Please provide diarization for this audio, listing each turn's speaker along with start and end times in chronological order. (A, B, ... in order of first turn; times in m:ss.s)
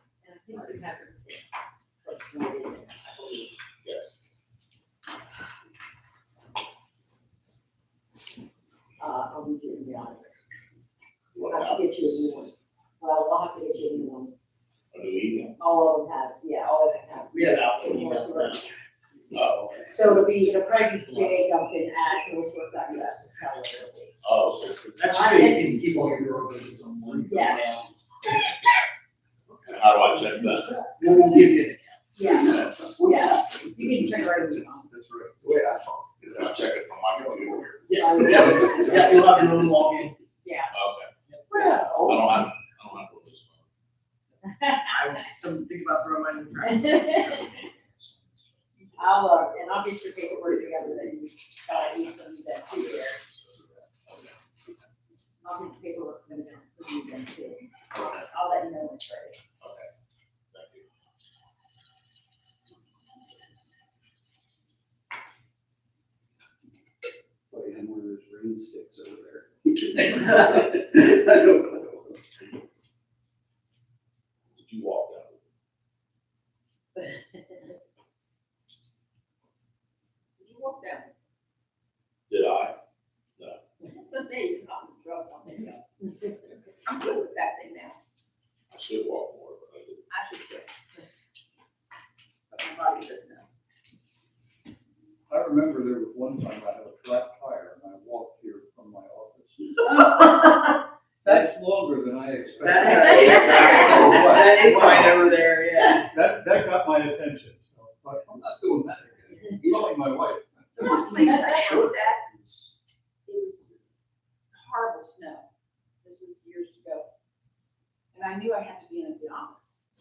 0:00.2-0:01.4 A
0:02.0-0:03.5 A
0:03.8-0:04.1 B
0:09.0-0:10.4 A
0:11.3-0:12.4 B
0:11.4-0:14.3 A
0:14.9-0:15.6 B
0:15.6-0:18.6 A
0:17.3-0:18.7 C
0:19.3-0:19.8 B
0:19.8-0:24.1 A
0:24.2-0:24.7 B
0:24.5-0:25.1 D
0:24.9-0:28.4 C
0:25.0-0:25.8 A
0:25.6-0:27.8 D
0:27.2-0:27.8 A
0:29.5-0:29.8 D
0:29.7-0:30.8 B
0:30.5-0:31.4 D
0:30.9-0:32.2 C
0:32.1-0:34.9 A
0:32.2-0:34.3 D
0:34.9-0:36.5 D
0:36.2-0:37.8 B
0:37.2-0:37.6 D
0:37.8-0:40.2 C
0:38.0-0:39.2 A
0:38.2-0:39.2 D
0:40.4-0:40.7 A
0:40.7-0:41.1 B
0:41.3-0:42.1 C
0:42.0-0:43.6 B
0:44.5-0:44.9 A
0:44.8-0:47.5 C
0:46.6-0:47.5 A
0:48.9-0:53.2 A
0:50.5-0:51.0 D
0:55.4-0:59.4 A
0:59.6-0:59.9 B
1:00.5-1:00.8 B
1:07.5-1:12.5 D
1:14.5-1:15.4 B
1:20.4-1:21.1 E
1:22.3-1:22.8 B
1:23.8-1:25.8 E
1:26.8-1:28.0 E
1:28.7-1:30.0 B
1:30.1-1:30.7 E
1:32.5-1:33.5 E
1:35.3-1:39.9 F
1:41.2-1:45.4 F
1:42.6-1:46.1 C
1:43.0-1:44.0 E
1:43.3-1:44.0 A
1:43.8-1:44.9 D
1:46.0-1:51.0 F
1:50.8-1:52.2 E
1:51.5-1:52.7 D
1:53.3-1:53.8 E
1:54.5-1:55.5 E
1:56.0-1:57.1 E
1:58.1-1:59.8 E